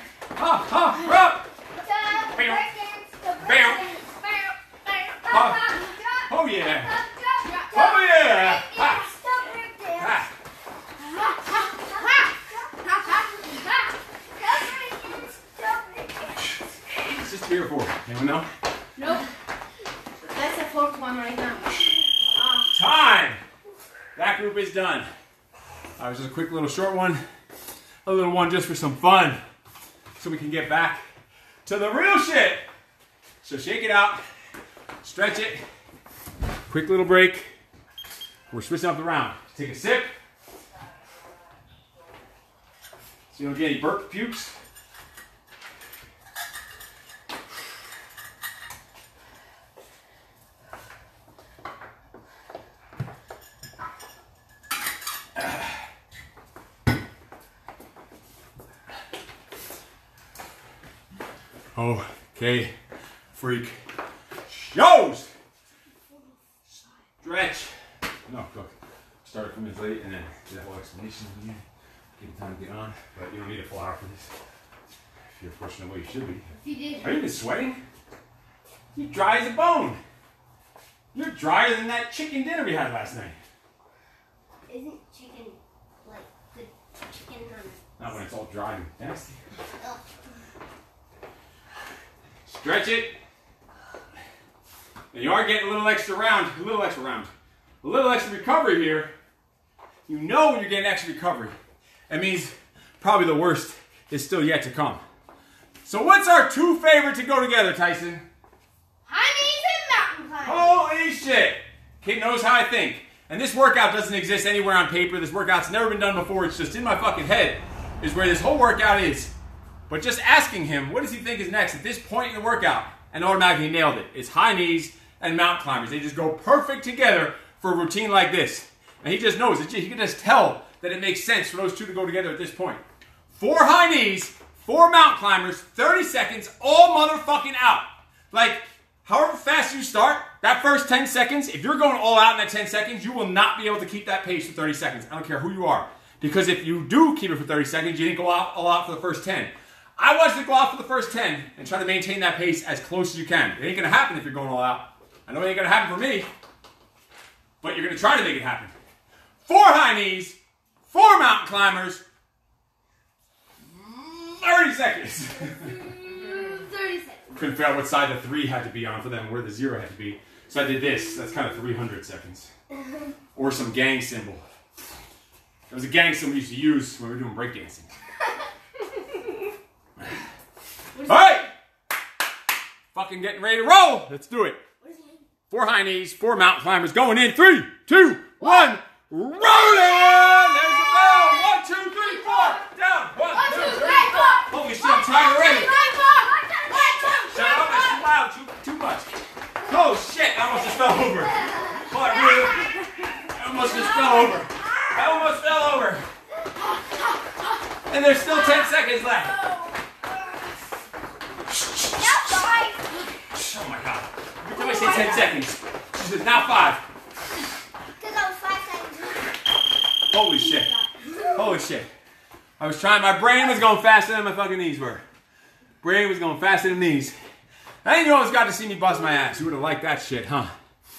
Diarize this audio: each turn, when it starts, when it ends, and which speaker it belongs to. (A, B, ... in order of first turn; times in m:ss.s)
0:00.4-0:01.4 A
0:01.7-0:10.2 B
0:02.3-0:02.6 A
0:03.4-0:03.8 A
0:05.3-0:05.7 A
0:06.3-0:07.0 A
0:07.7-0:09.0 A
0:10.0-0:10.3 A
0:11.1-0:13.8 B
0:11.5-0:12.3 C
0:14.3-0:16.5 B
0:17.0-0:18.5 A
0:19.0-0:19.2 C
0:20.2-0:22.7 C
0:22.7-0:23.4 A
0:24.2-0:25.1 A
0:26.0-0:27.2 A
0:28.0-0:29.4 A
0:30.2-0:31.0 A
0:31.6-0:32.6 A
0:33.4-0:34.2 A
0:35.0-0:35.6 A
0:36.7-0:37.5 A
0:38.5-0:40.1 A
0:43.3-0:44.5 A
0:55.4-0:55.7 A
1:01.7-1:02.7 A
1:03.3-1:03.8 A
1:04.5-1:05.3 A
1:07.2-1:07.7 A
1:08.3-1:11.6 A
1:12.2-1:14.3 A
1:15.4-1:16.5 A
1:16.5-1:17.1 B
1:17.0-1:17.8 A
1:18.9-1:20.0 A
1:21.1-1:23.4 A
1:24.7-1:27.8 B
1:28.0-1:29.4 A
1:32.5-1:33.2 A
1:35.1-1:39.1 A
1:40.1-1:41.5 A
1:42.1-1:45.0 A
1:45.8-1:48.2 A
1:49.1-1:50.8 B
1:50.4-1:59.3 A
1:59.9-2:12.8 A
2:13.3-2:36.3 A
2:37.6-2:38.7 A
2:39.4-2:40.4 A
2:40.9-2:42.0 A
2:43.7-2:45.8 A
2:45.5-2:47.4 B
2:47.3-2:52.5 A
2:53.3-2:54.4 A
2:55.7-2:57.9 A
3:01.0-3:01.4 C
3:01.0-3:01.5 A
3:02.9-3:04.6 A
3:04.8-3:05.2 B
3:05.5-3:15.8 A
3:09.5-3:12.7 B
3:13.3-3:18.0 B
3:13.3-3:14.5 C
3:17.3-3:19.1 A
3:19.6-3:22.8 A
3:20.9-3:22.9 B
3:23.3-3:26.0 A
3:23.6-3:24.9 B
3:26.5-3:27.5 B
3:27.9-3:29.4 A
3:28.2-3:30.5 B
3:31.5-3:32.4 A
3:31.9-3:33.0 B
3:33.3-3:36.8 A
3:34.6-3:35.2 B
3:38.0-3:39.4 B
3:40.1-3:40.7 A
3:40.5-3:41.6 B
3:41.3-3:41.9 A
3:42.6-3:45.0 A
3:45.8-3:47.2 A
3:47.8-3:50.5 A